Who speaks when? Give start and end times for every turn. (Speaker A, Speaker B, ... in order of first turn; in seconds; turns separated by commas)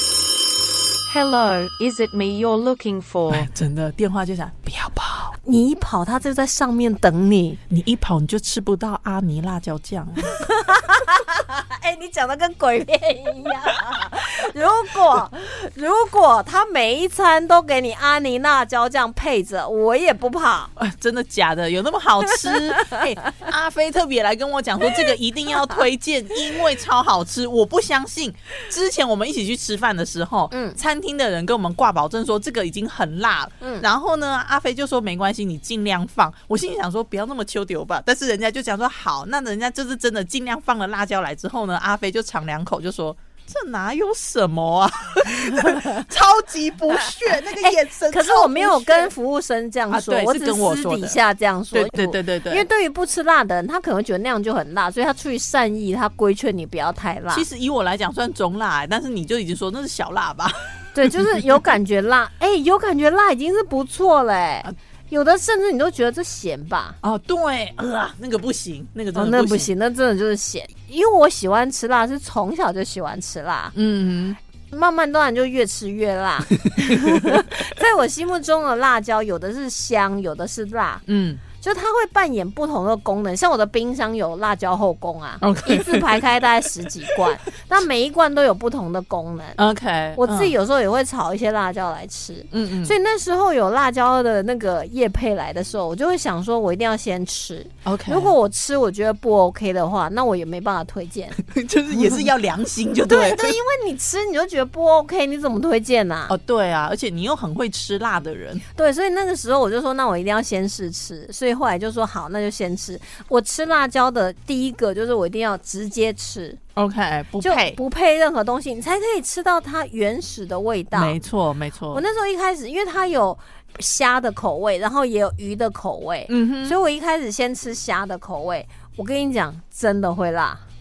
Speaker A: 1.1-3.5, Speaker B: 3.3-5.3, Speaker C: 5.4-7.6, Speaker B: 7.7-10.4, Speaker C: 10.3-20.7, Speaker B: 20.8-49.1, Speaker C: 30.5-30.8, Speaker C: 47.6-57.5, Speaker B: 49.9-51.1, Speaker B: 51.7-52.6, Speaker B: 57.3-61.6, Speaker C: 60.9-67.0, Speaker B: 67.0-69.7, Speaker C: 69.1-73.7, Speaker B: 73.7-74.4, Speaker C: 74.7-81.0, Speaker B: 76.6-77.5, Speaker B: 81.0-81.4, Speaker C: 81.6-89.6, Speaker B: 85.4-86.2, Speaker B: 89.6-90.5, Speaker C: 90.2-101.4, Speaker B: 92.5-92.9, Speaker B: 97.8-98.3, Speaker B: 101.4-103.6, Speaker C: 101.9-102.2, Speaker C: 103.0-106.3, Speaker B: 106.3-108.6, Speaker C: 108.7-116.6, Speaker B: 116.8-117.8, Speaker C: 117.4-121.2, Speaker B: 120.9-122.0, Speaker C: 121.9-130.6, Speaker B: 126.3-126.7